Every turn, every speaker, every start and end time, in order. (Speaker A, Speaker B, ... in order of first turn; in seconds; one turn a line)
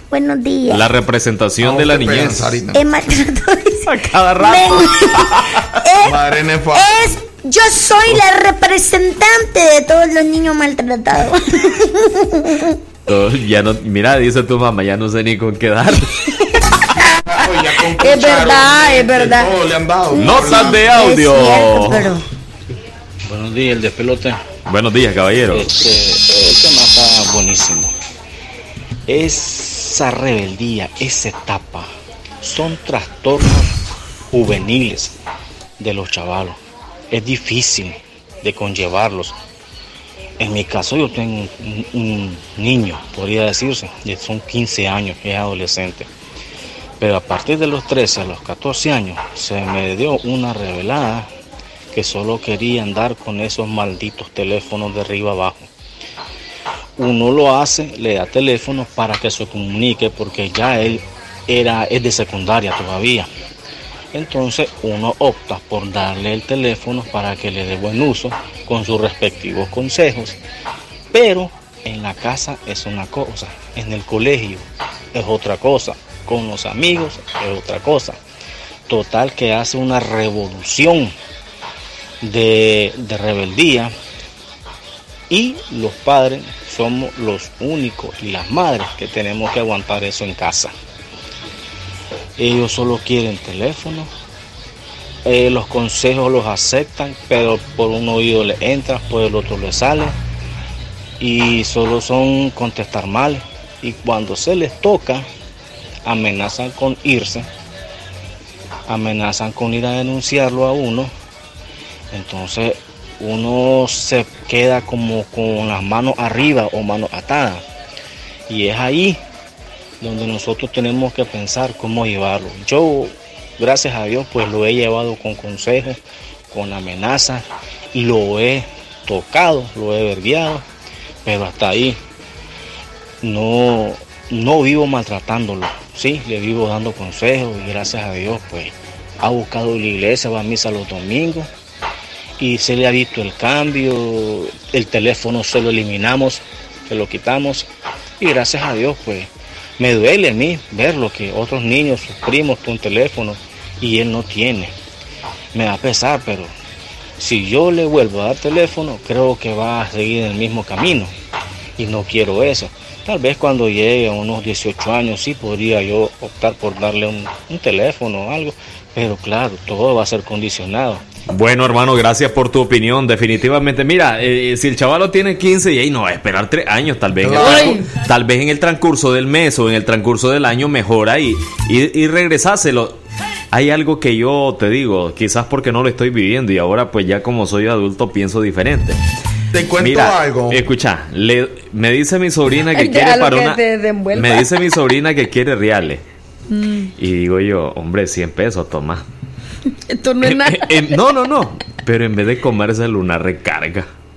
Speaker A: 0.1-0.8
Speaker B: 0.7-2.6
Speaker C: 1.6-2.8
Speaker A: 2.7-5.3
Speaker B: 3.9-5.6
Speaker A: 5.8-6.1
Speaker C: 6.0-6.8
Speaker A: 6.7-12.8
Speaker B: 13.1-16.2
Speaker C: 17.2-20.9
Speaker D: 18.0-19.5
Speaker B: 20.2-22.1
Speaker D: 20.8-22.0
Speaker A: 21.0-22.0
Speaker E: 23.3-24.4
Speaker B: 24.7-25.7
Speaker E: 25.5-27.9
Speaker E: 29.1-31.9
Speaker E: 32.4-33.7
Speaker E: 34.3-35.1
Speaker E: 35.8-36.6
Speaker E: 37.1-39.3
Speaker E: 40.4-46.1
Speaker E: 47.0-51.3
Speaker E: 51.9-55.7
Speaker E: 57.0-63.3
Speaker E: 64.1-70.4
Speaker E: 71.1-78.2
Speaker E: 78.9-81.1
Speaker E: 82.2-83.9
Speaker E: 85.3-90.7
Speaker E: 92.4-94.1
Speaker E: 95.2-100.1
Speaker E: 101.2-105.2
Speaker E: 106.0-107.5
Speaker E: 108.9-111.1
Speaker E: 112.1-117.6
Speaker E: 118.5-119.2
Speaker E: 120.0-126.0
Speaker E: 126.5-130.6
Speaker E: 131.2-132.0
Speaker E: 133.2-141.5
Speaker E: 142.4-147.7
Speaker E: 148.2-154.7
Speaker E: 155.5-156.5
Speaker E: 157.2-161.1
Speaker E: 161.8-171.0
Speaker B: 171.3-183.0
Speaker C: 177.2-177.8
Speaker D: 177.4-177.8
Speaker B: 183.5-189.0
Speaker C: 189.5-190.6
Speaker B: 189.8-193.6
Speaker D: 192.7-194.5
Speaker B: 194.1-196.0
Speaker D: 196.5-196.9
Speaker B: 197.0-199.1
Speaker D: 199.9-201.0
Speaker B: 200.2-203.9